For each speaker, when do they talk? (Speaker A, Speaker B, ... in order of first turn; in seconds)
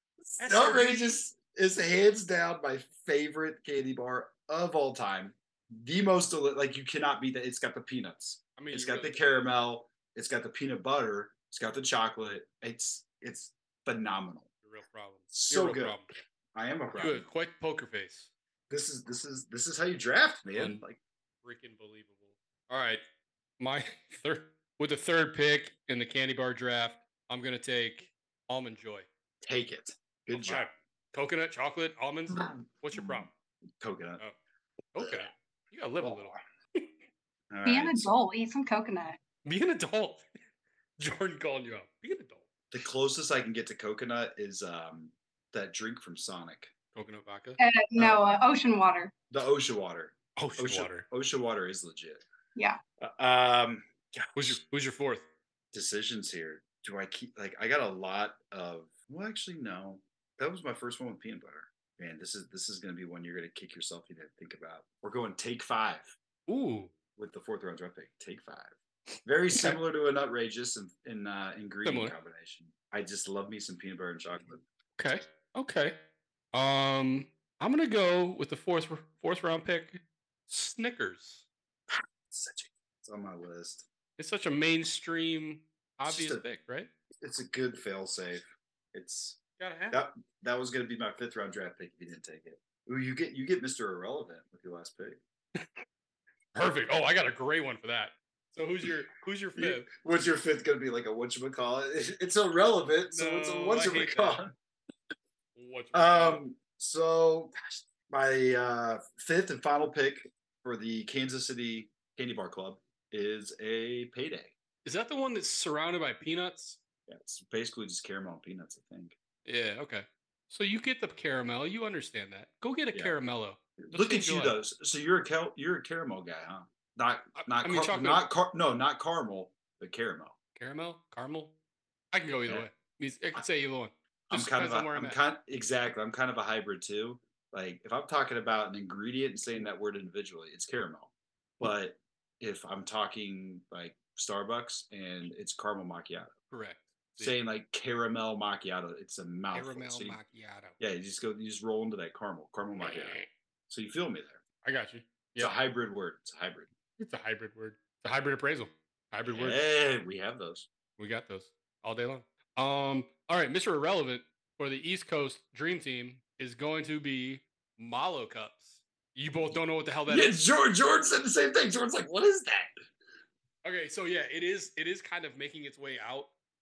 Speaker A: 0.4-1.1, 8.6-9.5, 14.6-16.1, 16.9-18.3, 20.5-20.8, 21.4-23.0, 23.6-29.1, 30.3-33.3, 34.9-36.9, 39.4-40.4, 41.0-42.5, 46.9-47.6, 50.4-51.0, 54.3-55.2, 66.5-66.9, 71.8-72.1, 75.0-76.0, 76.5-81.4, 84.2-86.9, 89.6-90.0, 95.5-95.8, 96.5-99.9, 103.1-104.4, 105.5-106.4, 114.8-116.8, 119.4-124.6, 127.3-128.2, 130.5-131.5, 132.1-135.2, 146.5-147.4, 149.5-150.8, 152.8-153.3, 154.6-155.5, 157.0-159.6, 161.0-170.4, 173.6-176.3
Speaker B: 0.4-14.5, 15.3-16.0, 16.5-17.3, 18.7-21.0, 29.4-30.7, 32.3-33.3, 33.8-34.2, 35.0-35.3, 36.0-36.4, 37.5-38.1, 42.7-46.7, 48.0-48.3, 49.3-52.2, 53.0-54.5, 55.7-66.2, 67.2-74.6, 81.9-83.9, 86.0-86.4, 87.2-89.4, 89.9-95.2, 99.5-104.5, 105.9-114.5, 117.1-119.2, 123.8-130.3, 134.3-146.3, 147.2-150.2, 150.8-154.4, 155.4-156.7, 159.3-160.7, 170.1-172.7
Speaker C: 37.6-39.2, 47.6-49.1